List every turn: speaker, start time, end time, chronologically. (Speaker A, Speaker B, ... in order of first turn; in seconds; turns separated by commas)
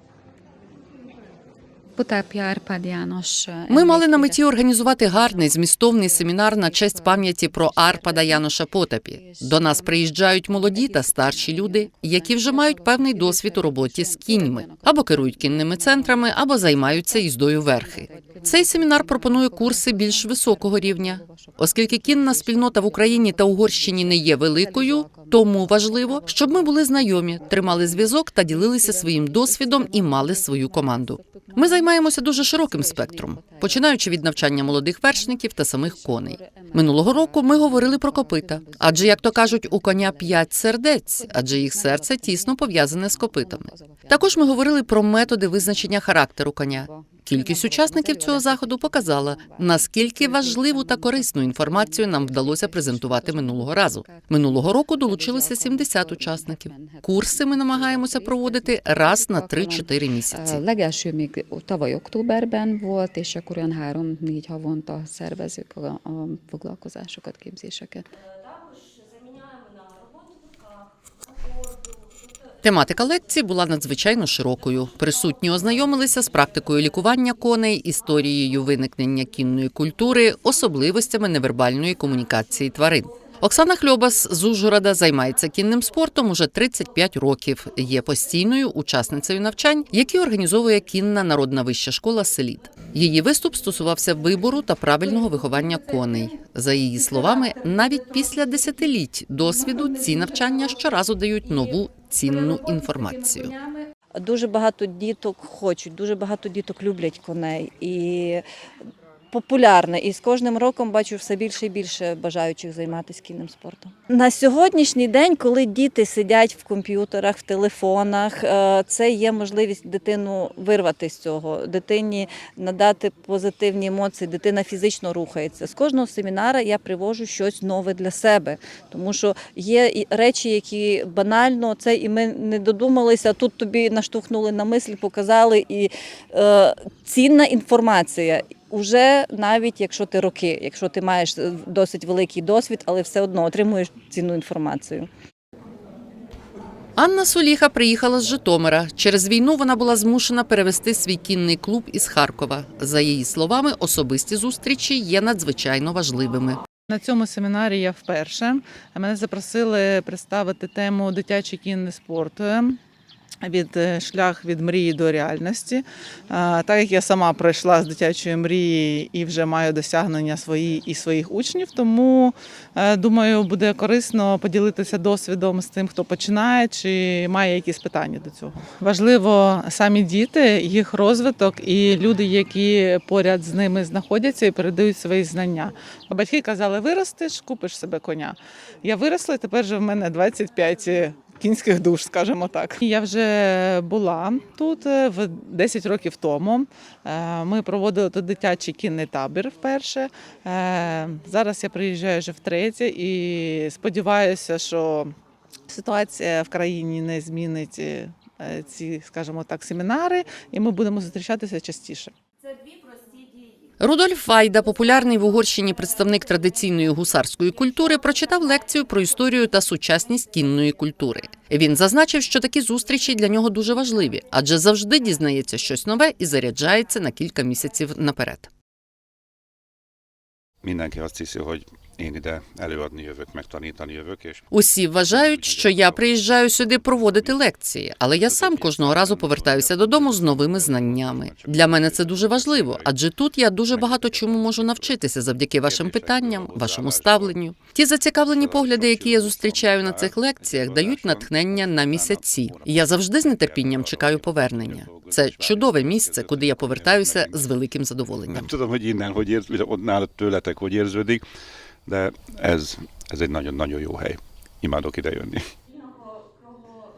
Speaker A: 2.0-8.5, Speaker B: 3.7-60.6, Speaker A: 9.1-40.6, Speaker A: 41.1-46.0, Speaker A: 46.7-68.0, Speaker B: 72.6-103.5, Speaker C: 104.2-108.4, Speaker C: 109.3-145.1, Speaker B: 147.0-156.6, Speaker D: 156.9-162.8, Speaker D: 163.4-205.1, Speaker D: 205.7-212.1, Speaker B: 213.8-228.5, Speaker E: 230.6-234.4, Speaker B: 234.5-258.5, Speaker E: 235.0-237.4, Speaker E: 238.1-242.9, Speaker E: 243.7-245.0, Speaker E: 245.6-247.4, Speaker E: 248.2-257.5, Speaker E: 258.3-261.2, Speaker E: 261.9-265.4